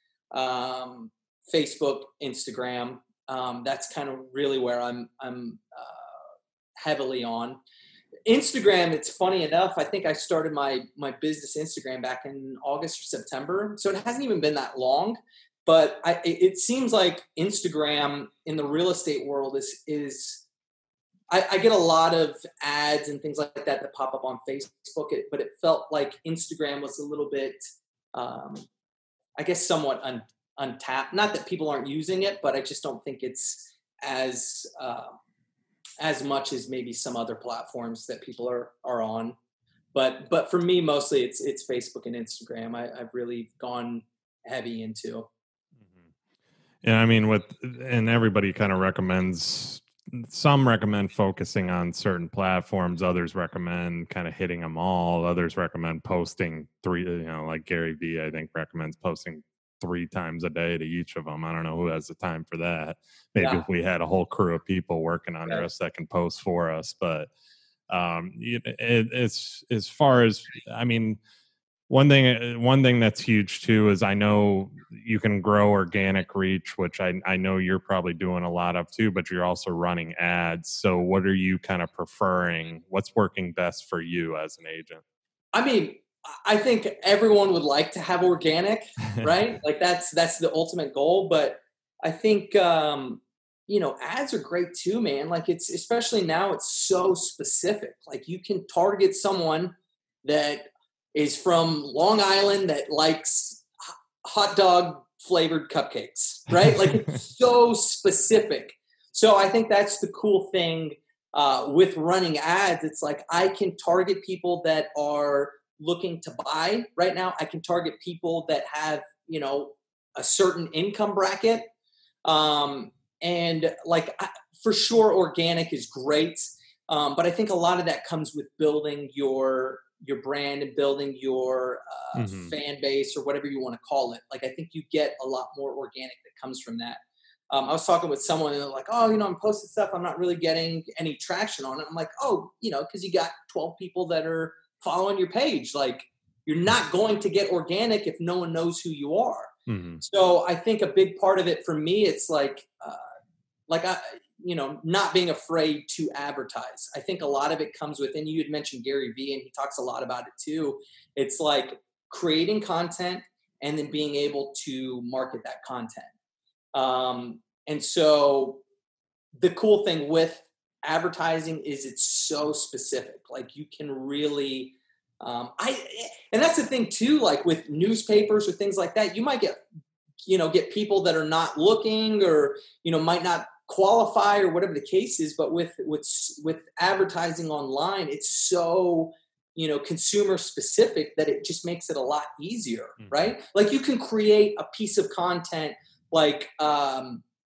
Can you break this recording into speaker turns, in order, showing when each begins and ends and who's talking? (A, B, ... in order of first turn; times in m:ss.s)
0:00.3-0:06.1 A
0:06.8-0:07.6 A
0:08.3-0:20.4 A
0:21.3-0:27.6 A
0:28.1-0:28.7 A
0:29.4-0:35.2 A
0:36.0-0:39.4 A
0:39.9-0:45.3 A
0:45.8-0:46.1 B
0:46.8-1:07.3 B
1:03.4-1:03.6 A
1:07.9-1:11.2 B
1:11.9-1:25.0 B
1:25.5-1:43.7 A
1:44.2-2:01.7 A
1:46.6-1:46.9 B
2:02.2-2:33.0 A
2:12.2-2:12.6 B
2:29.7-2:30.0 B
2:33.7-2:46.1 A
2:46.7-2:48.6 A
2:49.4-2:59.6 A
3:00.3-3:17.2 A
3:13.0-3:13.3 B